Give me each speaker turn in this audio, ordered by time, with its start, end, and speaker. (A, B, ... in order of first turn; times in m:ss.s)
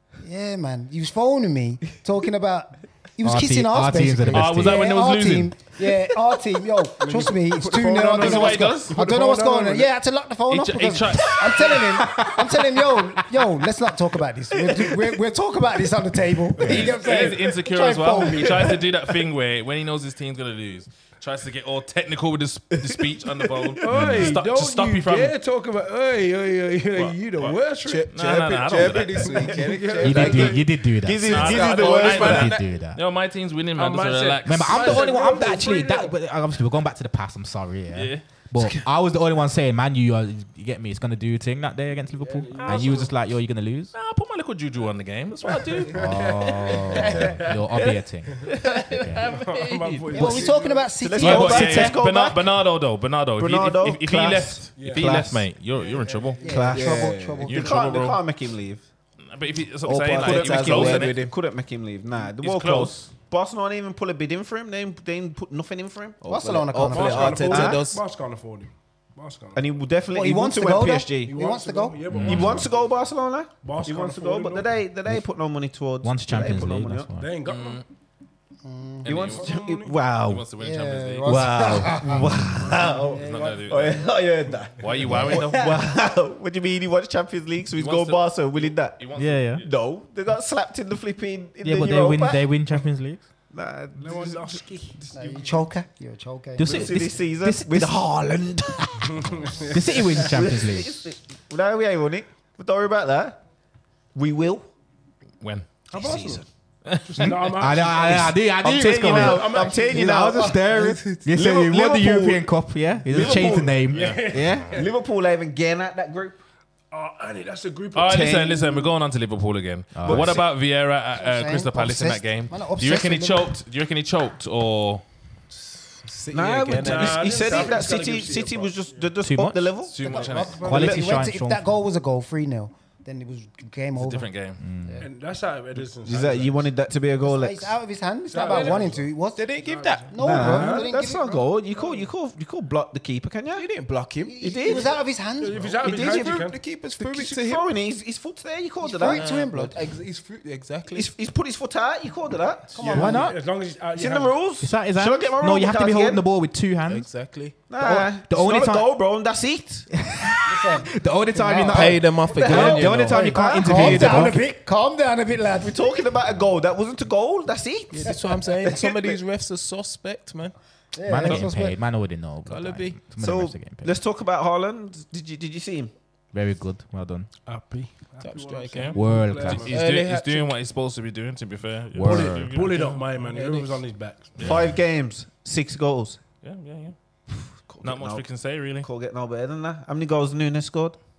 0:00.2-0:18.8 A
0:03.2-0:05.0 B
0:04.3-0:05.5 C
0:07.0-0:09.9 D
0:08.1-0:09.0 C
0:10.5-0:11.8 C
0:12.0-0:12.6 B
0:16.6-0:25.3 C
0:23.8-0:28.1 D
0:23.9-0:24.3 B
0:27.0-0:27.6 C
0:27.8-0:30.6 E
0:28.1-0:29.5 C
0:28.8-0:30.7 D
0:30.0-0:33.0 B
0:30.9-0:32.6 F
0:31.2-0:35.1 C
0:31.3-0:32.6 E
0:33.8-0:36.1 D
0:34.4-0:43.9 B
0:37.9-0:38.2 C
0:42.2-0:43.1 D
0:42.5-0:43.1 C
0:43.9-0:46.0 C
0:45.4-0:47.7 D
0:45.9-0:49.2 B
0:48.7-0:50.4 C
0:49.2-0:51.0 D
0:49.9-0:50.4 E
0:50.1-0:52.0 A
0:51.0-0:52.6 F
0:51.2-0:56.4 C
0:53.4-0:55.5 F
0:54.7-0:55.1 D
0:55.7-0:56.6 D
0:56.4-0:57.9 A
0:56.4-0:58.8 F
0:56.7-0:57.5 E
0:57.4-0:58.2 C
0:59.2-1:01.2 C
0:59.9-1:01.3 E
0:59.9-1:07.9 F
1:02.4-1:03.1 C
1:06.2-1:07.7 A
1:06.3-1:08.0 E
1:06.9-1:09.7 D
1:09.5-1:11.4 F
1:10.1-1:12.2 A
1:11.2-1:12.9 D
1:12.1-1:12.7 B
1:12.1-1:17.1 F
1:13.6-1:14.8 D
1:16.0-1:17.3 B
1:17.2-1:17.8 D
1:17.4-1:17.8 C
1:18.6-1:19.3 A
1:19.0-1:19.6 C
1:19.0-1:20.5 F
1:19.3-1:20.0 D
1:20.2-1:21.9 C
1:20.6-1:22.3 A
1:21.2-1:29.0 F
1:22.0-1:22.8 B
1:23.1-1:24.1 C
1:23.1-1:23.5 A
1:23.3-1:23.6 D
1:24.8-1:25.8 C
1:25.0-1:25.5 B
1:27.8-1:29.7 C
1:29.1-1:29.6 B
1:29.6-1:32.5 F
1:31.6-1:33.2 B
1:33.5-1:34.7 F
1:34.0-1:35.6 D
1:35.1-1:36.9 A
1:36.6-1:38.1 B
1:36.6-1:39.0 F
1:39.0-1:40.3 D
1:39.2-1:41.0 B
1:40.1-1:43.4 F
1:44.1-1:44.7 F
1:45.4-1:45.7 C
1:45.9-1:46.4 D
1:45.9-1:46.4 F
1:46.8-1:47.5 C
1:47.0-1:48.5 D
1:47.4-1:54.7 B
1:48.6-1:50.6 F
1:49.0-1:50.1 D
1:50.7-1:51.2 E
1:51.3-1:52.5 F
1:53.0-1:53.8 F
1:53.1-1:54.9 D
1:53.9-1:54.8 C
1:54.7-1:56.4 F
1:56.9-1:58.5 D
1:57.9-2:05.0 C
1:58.0-1:58.9 F
1:59.9-2:00.4 B
2:00.0-2:00.5 F
2:01.2-2:03.5 A
2:06.0-2:07.7 E
2:06.3-2:11.2 F
2:06.7-2:09.1 D
2:09.2-2:09.7 B
2:09.9-2:10.8 C
2:10.0-2:14.3 A
2:10.3-2:10.7 D
2:10.6-2:11.7 B
2:14.0-2:14.6 C
2:14.6-2:15.0 B
2:15.0-2:16.7 D
2:16.0-2:17.8 F
2:17.2-2:19.5 A
2:18.3-2:22.0 D
2:18.4-2:20.2 E
2:20.1-2:21.4 A
2:20.2-2:23.7 F
2:23.5-2:24.9 E
2:24.2-2:25.7 A
2:24.4-2:25.0 F
2:25.3-2:26.7 D
2:25.6-2:27.7 E
2:25.7-2:29.4 F
2:28.8-2:29.8 A
2:29.0-2:31.1 E
2:30.9-2:33.0 F
2:32.7-2:33.3 A
2:32.8-2:34.5 D
2:32.9-2:33.4 B
2:33.9-2:36.2 F
2:34.6-2:38.9 B
2:36.8-2:37.6 E
2:37.7-2:39.9 F
2:40.1-2:44.4 B
2:40.4-2:45.9 A
2:41.7-2:43.2 E
2:42.4-2:44.4 F
2:45.5-2:49.2 F
2:47.9-2:50.6 E
2:48.0-2:48.4 A
2:50.9-2:51.8 A
2:51.0-2:54.0 B
2:52.4-2:53.0 E
2:53.2-2:55.9 F
2:56.3-2:57.3 B
2:57.4-2:59.8 D
2:58.2-3:00.5 E
2:58.7-3:03.1 C
2:58.9-2:59.7 B
3:01.9-3:02.8 B
3:02.0-3:04.6 D
3:03.2-3:03.8 E
3:04.4-3:04.7 C
3:04.4-3:06.2 F
3:06.4-3:07.0 C
3:07.4-3:11.0 F
3:07.8-3:08.9 C